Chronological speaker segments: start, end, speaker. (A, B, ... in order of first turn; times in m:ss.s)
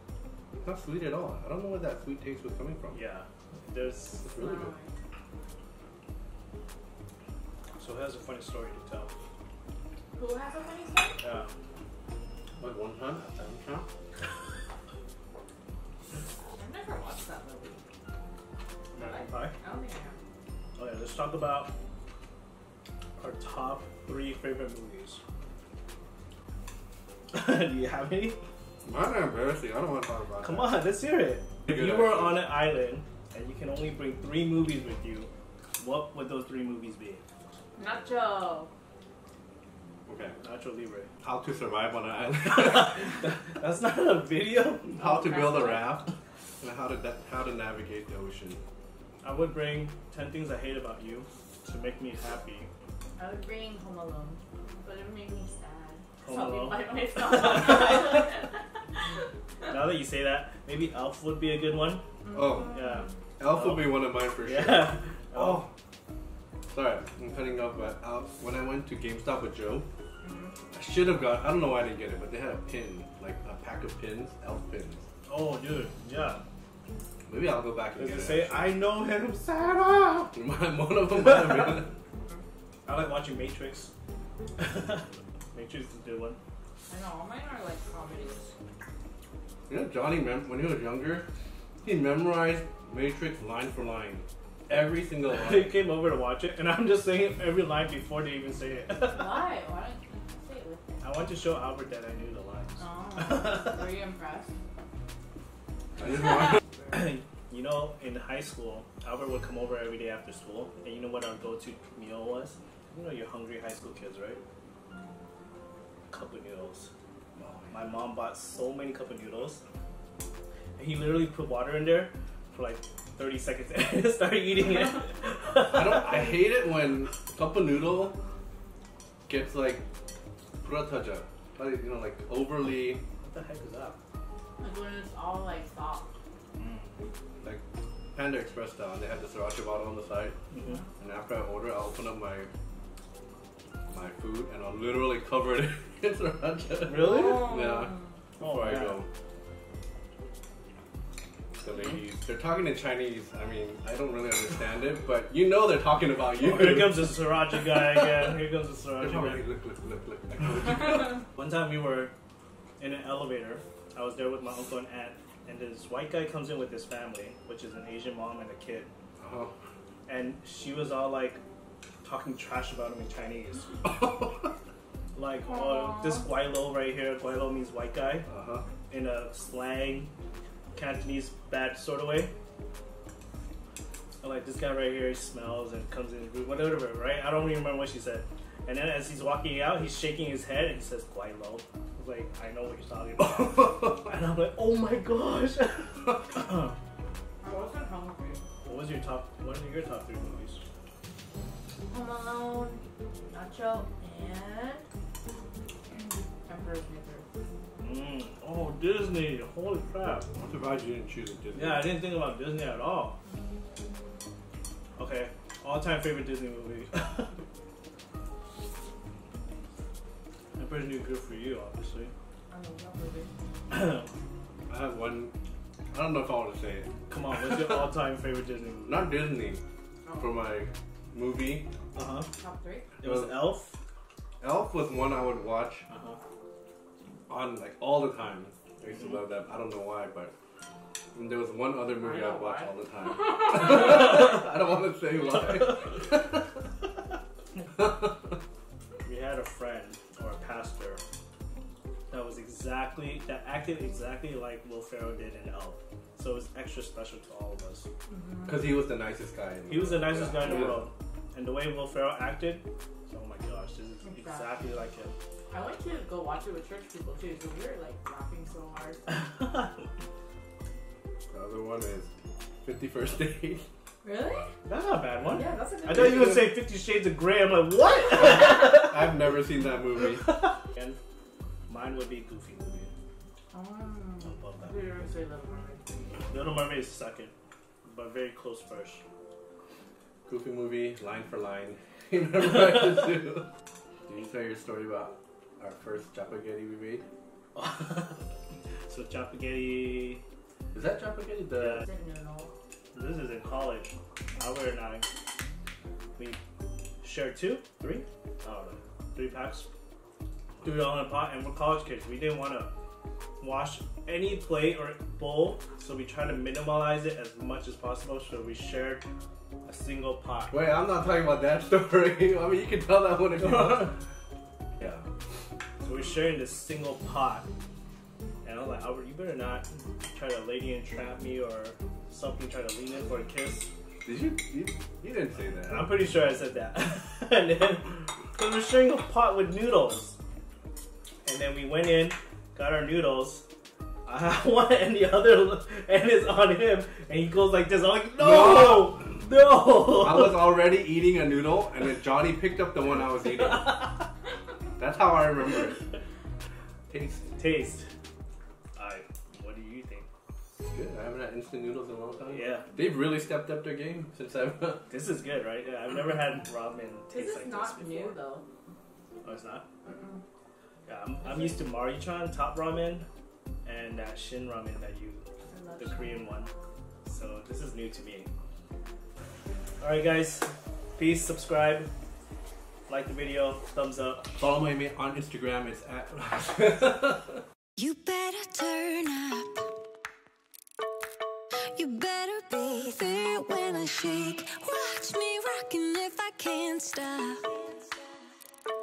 0:00.6-0:03.0 A
0:02.9-0:04.3 B
0:04.2-0:04.7 A
0:04.3-0:04.9 C
0:07.8-0:09.1 B
0:10.2-0:11.2 C
0:11.2-0:11.5 B
0:12.6-0:13.8 A
0:16.6-0:17.8 C
0:18.9-0:19.5 B
0:18.9-0:20.2 C
0:20.8-0:21.7 B
0:23.2-0:25.2 B
0:27.3-0:28.4 B
0:28.8-0:30.8 A
0:30.4-0:37.2 B
0:31.7-0:32.1 A
0:37.8-0:38.7 C
0:40.0-0:40.4 A
0:40.4-0:41.1 B
0:41.2-0:43.1 A
0:42.9-0:45.0 B
0:45.0-0:46.1 A
0:45.0-0:46.0 C
0:46.6-0:48.6 A
0:49.2-0:52.7 B
0:53.2-0:59.0 C
0:56.2-0:58.1 B
0:59.7-1:02.0 B
1:02.2-1:03.0 C
1:02.3-1:02.8 A
1:02.6-1:05.7 B
1:03.4-1:05.7 A
1:06.7-1:09.9 A
1:10.2-1:10.5 C
1:10.7-1:15.1 A
1:15.2-1:16.4 B
1:17.3-1:18.8 A
1:18.0-1:20.3 B
1:20.3-1:21.9 A
1:22.8-1:23.9 B
1:24.6-1:26.4 B
1:26.9-1:28.5 C
1:29.7-1:31.2 A
1:31.8-1:35.7 A
1:35.3-1:39.5 B
1:39.0-1:41.2 C
1:41.0-1:43.7 B
1:42.8-1:44.5 C
1:46.0-1:46.6 A
1:46.0-1:47.1 C
1:46.9-1:54.4 B
1:56.1-1:56.9 B
1:57.4-1:57.8 A
1:57.7-1:59.6 B
2:00.8-2:06.4 B
2:05.7-2:08.2 A
2:09.3-2:09.8 A
2:10.6-2:13.0 A
2:13.2-2:14.0 B
2:14.6-2:16.1 C
2:16.6-2:17.0 B
2:18.1-2:20.4 A
2:20.5-2:20.8 B
2:21.0-2:22.5 A
2:23.9-2:29.1 A
2:26.8-2:27.6 B
2:27.0-2:28.0 C
2:28.4-2:29.0 B
2:31.6-2:37.5 A
2:36.3-2:39.4 B
2:39.0-2:41.2 A
2:41.3-2:42.1 B
2:42.8-2:48.9 B
2:49.2-2:49.5 A
2:50.0-2:51.4 B
2:52.0-2:53.8 B
2:53.8-2:54.5 A
2:55.1-2:58.3 B
2:55.5-2:56.2 C
2:58.3-2:58.6 A
2:58.9-3:00.1 B
3:00.7-3:02.3 B
3:04.2-3:16.7 B
3:17.4-3:18.4 C
3:18.6-3:20.6 B
3:21.9-3:24.8 C
3:26.0-3:27.3 C
3:27.8-3:30.3 B
3:30.3-3:32.0 A
3:31.5-3:33.2 B
3:35.0-3:37.4 B
3:40.5-3:42.1 B
3:42.5-3:43.3 C
3:43.7-3:44.1 B
3:44.7-3:45.3 A
3:45.9-3:46.9 A
3:47.1-3:49.1 B
3:48.8-3:49.6 A
3:50.0-3:50.5 C
3:50.2-3:51.7 A
3:51.9-3:52.3 B
3:52.3-3:52.9 C
3:53.0-3:53.8 B
3:53.0-3:53.5 A
3:54.4-3:55.8 A
3:55.9-3:56.2 B
3:57.3-4:00.3 A
4:01.1-4:06.7 A
4:02.0-4:02.7 C
4:07.8-4:08.4 A
4:09.0-4:11.0 B
4:12.1-4:17.9 B
4:18.1-4:18.6 C
4:18.4-4:20.9 A
4:19.7-4:25.1 B
4:24.0-4:24.7 C
4:25.5-4:29.0 C
4:29.4-4:29.7 B
4:31.3-4:32.1 A
4:32.6-4:33.6 A
4:34.0-4:34.5 C
4:34.6-4:39.0 B
4:35.3-4:36.4 C
4:35.9-4:36.5 A
4:38.2-4:40.5 A
4:40.4-4:41.0 B
4:41.7-4:42.9 B
4:43.5-4:46.3 C
4:44.2-4:44.9 B
4:46.3-4:47.3 B
4:47.8-4:49.0 B
4:50.3-4:53.5 A
4:54.1-4:57.0 A
4:57.5-4:58.2 B
4:58.9-5:00.2 B
5:00.7-5:01.8 A
5:01.6-5:01.8 B
5:01.8-5:02.5 C
5:02.9-5:05.1 B
5:07.0-5:09.7 B
5:10.6-5:12.7 B
5:13.4-5:19.0 B
5:19.6-5:20.6 B
5:20.5-5:24.0 A
5:23.4-5:23.9 B
5:24.8-5:25.0 A
5:25.8-5:27.5 B
5:28.4-5:33.7 B
5:34.0-5:36.0 A
5:35.5-5:40.2 B
5:41.2-5:43.4 B
5:44.0-5:50.6 B
5:48.2-5:49.0 A
5:49.9-5:54.0 A
5:54.8-5:55.9 A
5:56.9-5:57.3 A
5:57.4-5:57.9 B
5:58.8-6:00.1 B
6:00.6-6:04.9 A
6:02.3-6:02.7 B
6:04.9-6:08.2 B
6:07.1-6:08.4 C
6:09.2-6:09.7 B
6:09.8-6:10.2 C
6:10.8-6:13.1 B
6:11.2-6:11.6 C
6:13.6-6:15.2 B
6:15.5-6:16.3 C
6:15.8-6:16.5 B
6:17.0-6:18.3 B
6:19.8-6:21.9 B
6:22.9-6:24.3 B
6:24.3-6:27.4 A
6:27.8-6:29.7 D
6:31.7-6:37.9 D